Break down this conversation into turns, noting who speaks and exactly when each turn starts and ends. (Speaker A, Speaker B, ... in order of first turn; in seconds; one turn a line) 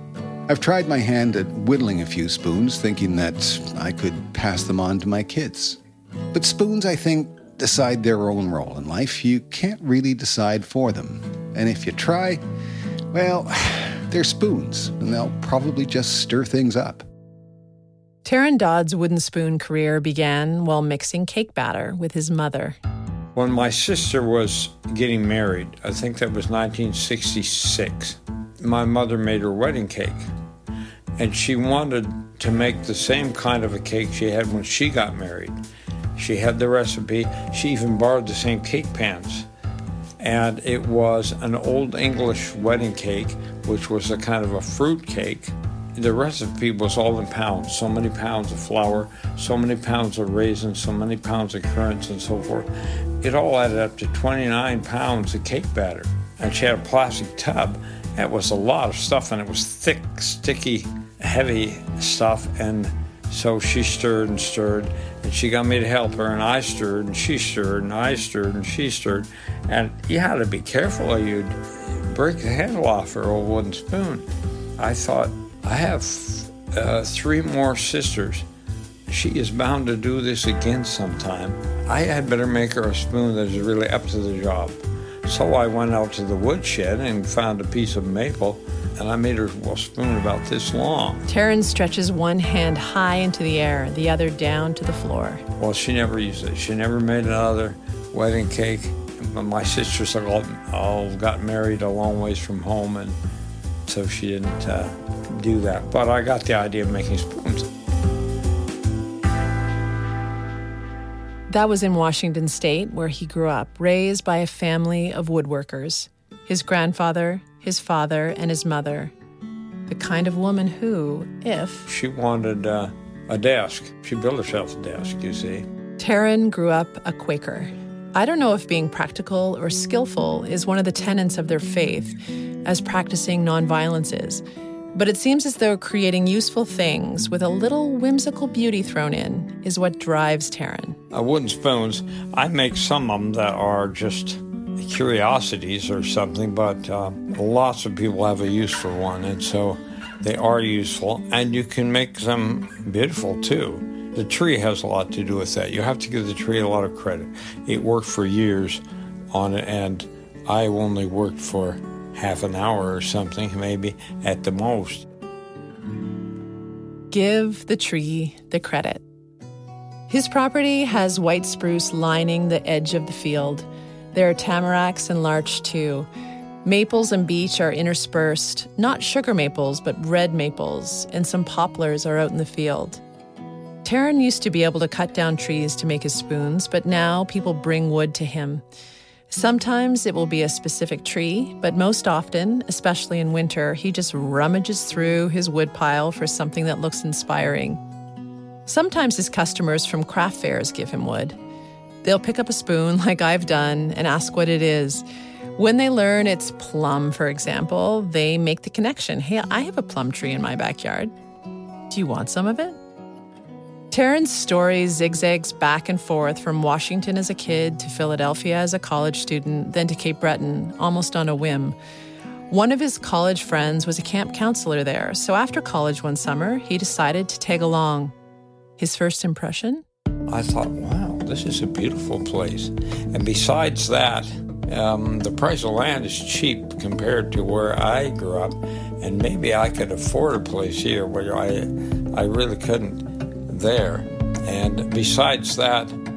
Speaker A: 0.5-5.8
Speaker A: 6.3-12.4
Speaker A: 13.1-17.1
Speaker B: 18.2-22.8
Speaker C: 23.3-30.3
Speaker C: 31.2-35.5
Speaker C: 36.1-39.5
Speaker C: 40.2-52.7
Speaker C: 53.2-74.3
Speaker C: 74.8-78.5
Speaker C: 79.1-91.2
Speaker B: 91.3-95.4
Speaker C: 95.6-103.2
Speaker C: 103.9-107.7
Speaker B: 111.5-119.1
Speaker B: 119.9-121.9
Speaker C: 121.9-125.7
Speaker B: 126.0-134.4
Speaker B: 134.9-141.0
Speaker C: 141.1-158.8
Speaker C: 159.3-165.1
Speaker B: 167.1-169.0
Speaker B: 170.1-176.1
Speaker B: 176.6-183.0
Speaker B: 183.8-188.6
Speaker B: 189.3-197.8
Speaker B: 198.7-201.3
Speaker B: 202.0-205.0
Speaker B: 205.6-211.1
Speaker B: 211.9-212.8
Speaker B: 213.9-221.7
Speaker B: 222.5-228.1
Speaker B: 228.8-229.8
Speaker C: 230.3-246.0